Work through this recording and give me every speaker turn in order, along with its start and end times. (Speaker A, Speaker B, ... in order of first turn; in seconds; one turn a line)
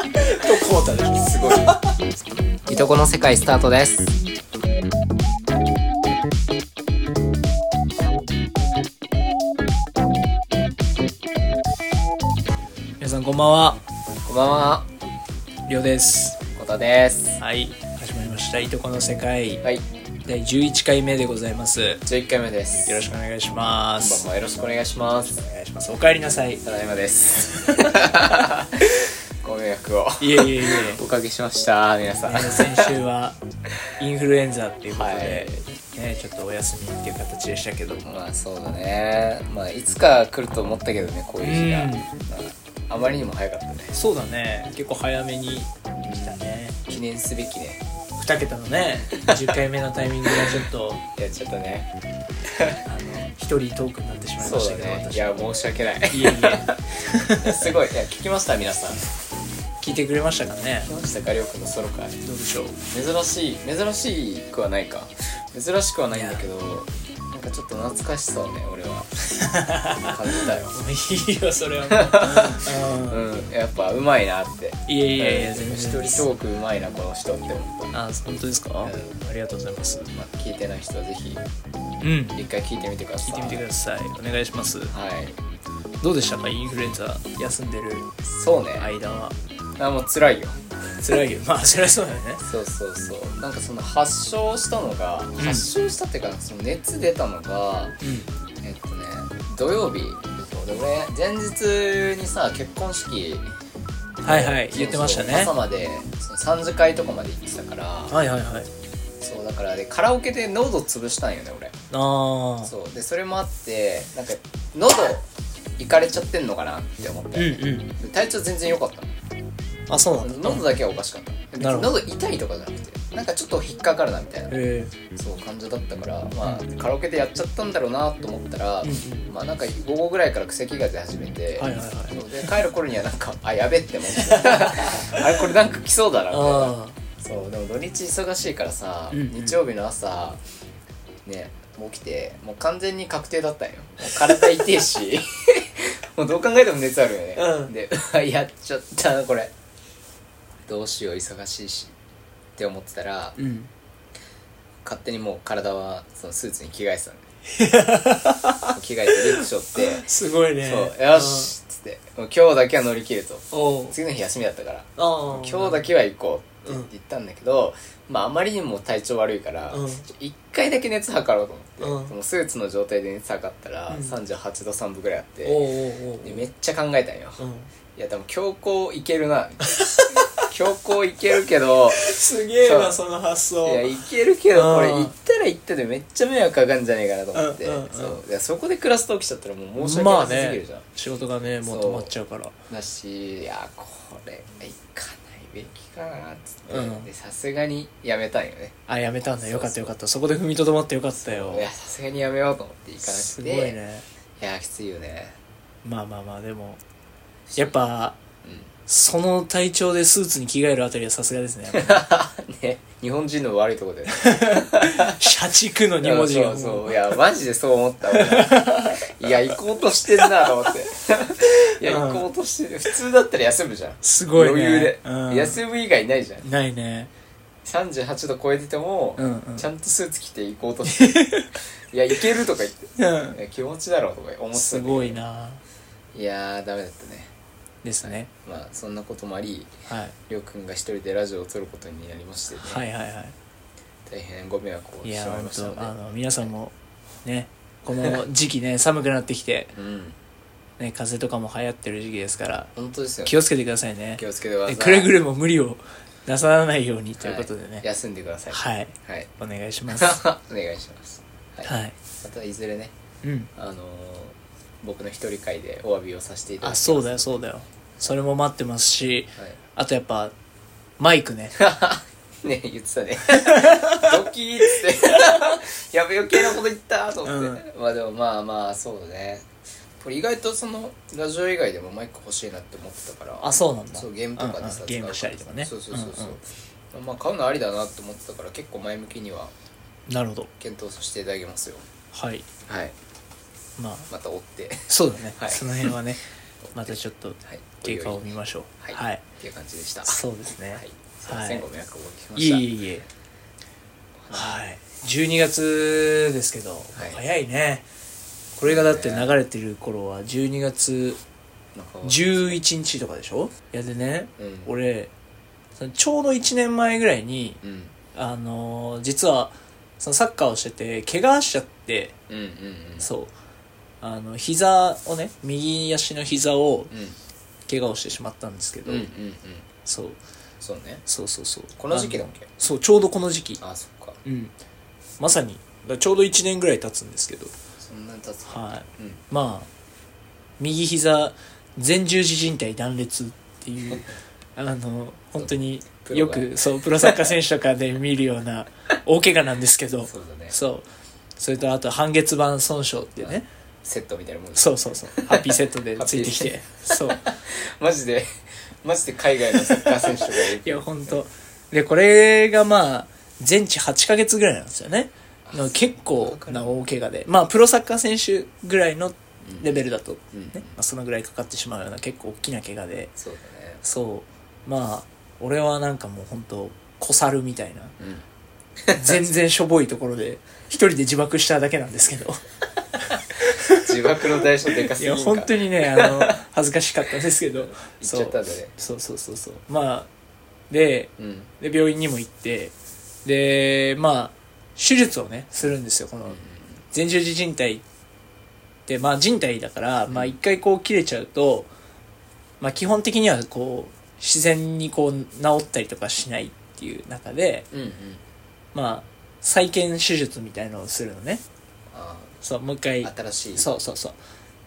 Speaker A: 0.2-1.9
Speaker B: 1.1-1.8
Speaker B: 2.6-4.2
Speaker A: 13.0-13.8
Speaker B: 14.2-14.9
Speaker A: 15.7-16.4
Speaker B: 16.5-17.4
Speaker A: 17.4-19.6
Speaker A: 20.2-22.0
Speaker B: 22.1-23.0
Speaker A: 22.9-24.2
Speaker B: 24.0-25.4
Speaker A: 25.3-26.6
Speaker B: 26.6-32.9
Speaker A: 27.6-27.9
Speaker A: 30.2-31.0
Speaker A: 32.2-33.4
Speaker A: 34.0-38.2
Speaker B: 34.9-35.6
Speaker B: 38.0-44.0
Speaker A: 41.4-42.1
Speaker A: 43.9-46.8
Speaker B: 46.0-47.8
Speaker A: 48.2-51.0
Speaker B: 49.2-49.6
Speaker B: 50.3-50.6
Speaker B: 51.2-51.9
Speaker B: 52.5-52.8
Speaker A: 52.9-55.4
Speaker B: 54.4-56.8
Speaker A: 56.1-57.7
Speaker B: 57.4-59.1
Speaker A: 59.8-60.9
Speaker B: 60.9-62.2
Speaker A: 62.2-62.8
Speaker B: 62.9-69.1
Speaker A: 66.1-66.5
Speaker A: 69.3-70.2
Speaker B: 70.0-70.8
Speaker A: 70.7-73.3
Speaker B: 71.9-78.0
Speaker A: 74.9-76.3
Speaker A: 77.9-80.1
Speaker B: 78.8-79.2
Speaker B: 80.1-81.5
Speaker A: 82.0-82.4
Speaker B: 82.3-83.7
Speaker A: 83.2-84.9
Speaker B: 84.9-85.4
Speaker A: 86.0-88.1
Speaker B: 88.2-88.9
Speaker A: 88.8-89.4
Speaker B: 89.8-90.6
Speaker A: 91.0-92.4
Speaker B: 92.5-98.0
Speaker A: 95.4-95.7
Speaker A: 98.0-98.3
Speaker B: 98.6-103.5
Speaker A: 104.2-105.5
Speaker B: 104.2-108.2
Speaker A: 108.1-108.7
Speaker B: 109.2-111.8
Speaker A: 111.9-112.7
Speaker B: 112.7-115.3
Speaker B: 115.8-119.1
Speaker A: 117.3-117.9
Speaker A: 119.9-120.7
Speaker B: 120.2-124.5
Speaker A: 121.6-122.0
Speaker A: 124.5-124.9
Speaker B: 125.1-140.4
Speaker A: 128.8-129.3
Speaker A: 131.6-132.5
Speaker A: 134.2-135.2
Speaker A: 136.3-137.0
Speaker A: 139.1-139.6
Speaker B: 141.2-149.5
Speaker A: 147.4-147.7
Speaker B: 150.7-151.9
Speaker B: 152.6-153.4
Speaker A: 153.4-153.7
Speaker B: 154.8-157.3
Speaker A: 157.5-161.5
Speaker B: 158.7-160.1
Speaker B: 160.6-175.7
Speaker A: 163.5-164.0
Speaker A: 165.0-165.9
Speaker A: 166.7-166.9
Speaker A: 169.7-170.1
Speaker A: 171.8-172.1
Speaker A: 173.9-174.2
Speaker A: 175.4-176.4
Speaker B: 176.2-177.4
Speaker A: 177.4-177.7
Speaker B: 178.0-182.1
Speaker A: 179.7-180.5
Speaker A: 181.9-184.0
Speaker B: 182.6-183.0
Speaker B: 183.6-190.9
Speaker A: 184.5-185.1
Speaker A: 187.3-188.2
Speaker A: 189.8-192.5
Speaker B: 191.6-192.1
Speaker B: 192.7-198.8
Speaker A: 196.7-197.1
Speaker A: 198.9-201.7
Speaker B: 199.4-199.9
Speaker B: 201.2-203.8
Speaker A: 203.0-204.1
Speaker B: 204.4-205.4
Speaker A: 205.8-206.8
Speaker B: 207.5-207.7
Speaker A: 207.6-208.2
Speaker B: 208.4-208.7
Speaker A: 208.9-212.0
Speaker B: 211.7-215.2
Speaker A: 214.1-217.2
Speaker B: 216.0-226.5
Speaker A: 218.1-219.1
Speaker A: 221.8-222.2
Speaker A: 224.0-225.6
Speaker A: 226.4-227.1
Speaker B: 227.6-231.4
Speaker A: 229.2-229.7
Speaker A: 230.9-231.5
Speaker B: 231.9-235.2
Speaker A: 233.0-233.4
Speaker A: 234.6-235.6
Speaker B: 236.1-237.3
Speaker A: 237.8-238.3
Speaker B: 238.0-239.7
Speaker A: 239.9-240.2
Speaker B: 240.3-242.8
Speaker A: 242.5-243.3
Speaker B: 244.1-246.5
Speaker A: 245.0-246.7
Speaker A: 247.2-249.7
Speaker B: 249.7-250.2
Speaker A: 250.8-252.7
Speaker B: 252.8-253.4
Speaker A: 253.3-257.8
Speaker B: 254.2-255.1
Speaker B: 257.2-259.3
Speaker A: 258.5-260.2
Speaker B: 259.9-262.9
Speaker A: 261.6-262.0
Speaker A: 263.2-263.5
Speaker B: 263.6-267.3
Speaker A: 266.6-270.3
Speaker A: 271.0-271.6
Speaker B: 271.6-279.5
Speaker A: 273.4-274.1
Speaker A: 274.7-275.6
Speaker A: 277.2-277.6
Speaker B: 280.0-289.5
Speaker A: 283.4-286.4
Speaker A: 290.1-290.5
Speaker B: 290.6-291.9
Speaker A: 292.1-292.5
Speaker B: 292.7-292.9
Speaker A: 293.8-294.1
Speaker B: 294.1-296.0
Speaker A: 294.9-296.2
Speaker B: 296.6-300.2
Speaker A: 296.8-299.2
Speaker A: 300.1-301.7
Speaker B: 300.8-302.7
Speaker A: 302.4-303.1
Speaker B: 304.2-304.6
Speaker A: 304.3-307.9
Speaker B: 306.9-307.2
Speaker A: 308.6-311.2
Speaker B: 308.6-309.3
Speaker B: 311.8-312.6
Speaker A: 312.0-315.1
Speaker B: 314.4-314.7
Speaker A: 315.8-317.6
Speaker B: 317.6-317.9
Speaker A: 318.1-322.1
Speaker B: 322.3-323.1
Speaker A: 323.0-323.3
Speaker A: 324.0-326.9
Speaker B: 326.9-327.2
Speaker A: 327.7-329.1
Speaker B: 328.9-329.7
Speaker A: 329.9-330.2
Speaker B: 330.6-331.0
Speaker A: 331.1-333.6
Speaker B: 331.8-332.5
Speaker B: 333.6-334.2
Speaker A: 334.2-334.5
Speaker A: 335.2-337.5
Speaker B: 337.8-339.2
Speaker A: 338.5-339.7
Speaker A: 340.6-350.9
Speaker B: 346.0-347.4
Speaker B: 350.1-350.6
Speaker A: 351.4-353.5
Speaker B: 353.2-361.2
Speaker A: 354.6-357.3
Speaker A: 359.6-373.1
Speaker B: 365.5-366.7
Speaker B: 369.4-369.8
Speaker B: 370.3-370.7
Speaker B: 373.2-373.8
Speaker A: 373.8-377.9
Speaker B: 378.0-378.2
Speaker B: 378.8-379.3
Speaker A: 378.9-382.4
Speaker A: 383.0-384.2
Speaker B: 383.6-386.4
Speaker A: 384.9-390.1
Speaker B: 387.8-388.7
Speaker A: 390.7-396.4
Speaker B: 391.2-391.5
Speaker B: 396.2-396.8
Speaker A: 396.9-397.8
Speaker A: 398.9-401.7
Speaker B: 400.1-400.4
Speaker A: 402.6-407.7
Speaker B: 407.7-408.2
Speaker A: 408.7-411.4
Speaker B: 411.9-412.3
Speaker A: 412.4-414.2
Speaker B: 413.0-413.7